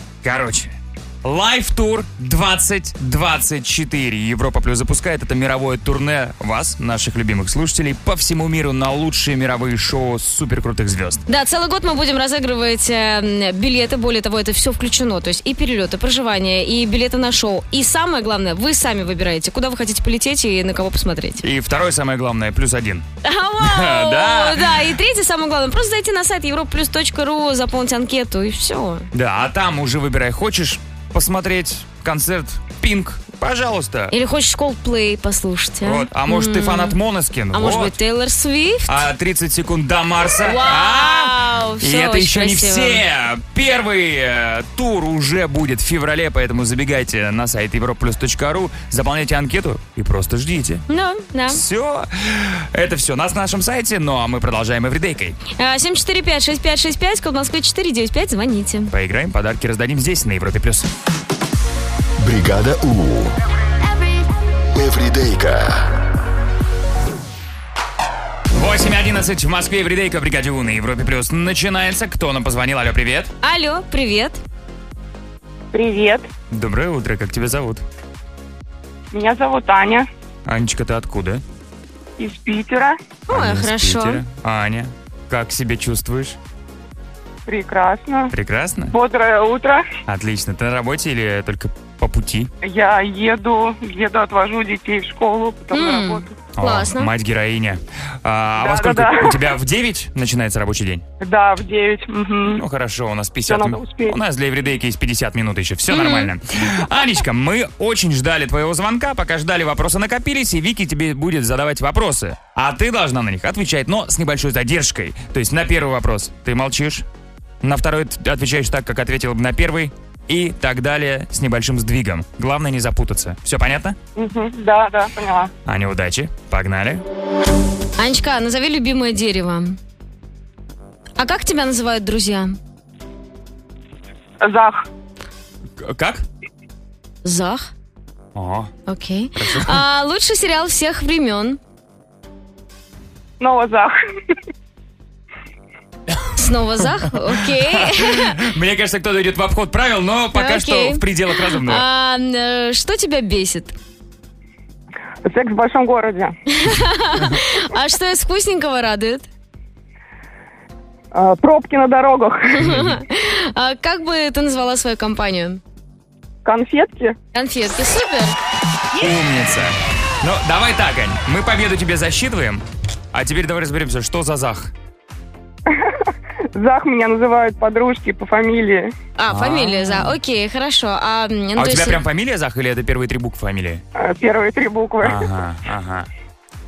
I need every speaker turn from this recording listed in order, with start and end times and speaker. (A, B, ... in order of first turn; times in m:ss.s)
0:00.2-0:11.2 A
0:11.3-0:21.4 B
0:21.4-0:23.0 A
0:23.2-0:29.1 B
0:23.6-0:24.9 A
0:29.1-0:34.1 A
0:34.1-0:37.0 B
0:35.8-0:37.9 A
0:37.5-0:39.0 B
0:38.9-0:50.8 A
0:40.4-0:43.0 B
0:50.9-0:51.6 B
0:51.5-0:55.4 A
0:55.5-0:58.9 B
0:58.9-1:00.9 A
1:02.2-1:03.3 C
1:04.7-1:05.9 C
1:08.5-1:13.3 A
1:13.4-1:14.4 B
1:15.7-1:16.3 D
1:16.5-1:17.8 A
1:19.1-1:20.1 D
1:20.4-1:21.4 A
1:22.2-1:23.0 D
1:23.3-1:24.2 B
1:23.3-1:26.4 A
1:27.5-1:28.3 D
1:28.3-1:28.9 A
1:28.9-1:29.8 D
1:30.0-1:32.5 A
1:32.6-1:36.4 D
1:35.7-1:37.1 B
1:36.5-1:41.0 A
1:38.6-1:39.4 D
1:41.2-1:42.6 D
1:42.5-1:57.0 A
1:43.5-1:44.2 D
1:45.9-1:46.3 B
1:57.6-2:04.0 A
2:04.2-2:05.5 D
2:05.6-2:07.0 A
2:08.0-2:09.8 B
2:11.2-2:12.6 B
2:14.4-2:14.8 D
2:15.8-2:16.2 A
2:17.2-2:17.7 B
2:18.3-2:18.7 A
2:18.9-2:21.6 B
2:19.4-2:19.8 A
2:23.4-2:23.9 D
2:26.1-2:31.8 A
2:26.4-2:28.4 B
2:30.3-2:33.7 B
2:35.2-2:36.3 D
2:36.5-2:39.3 B
2:41.1-2:42.6 D
2:42.5-2:45.6 B
2:42.6-2:43.0 A
2:46.4-2:47.1 D
2:47.3-2:48.4 B
2:48.9-2:54.7 A
2:56.5-2:58.9 D
2:59.2-3:02.0 B
2:59.3-3:00.2 A
3:01.6-3:03.8 A
3:04.0-3:05.2 D
3:05.0-3:06.1 A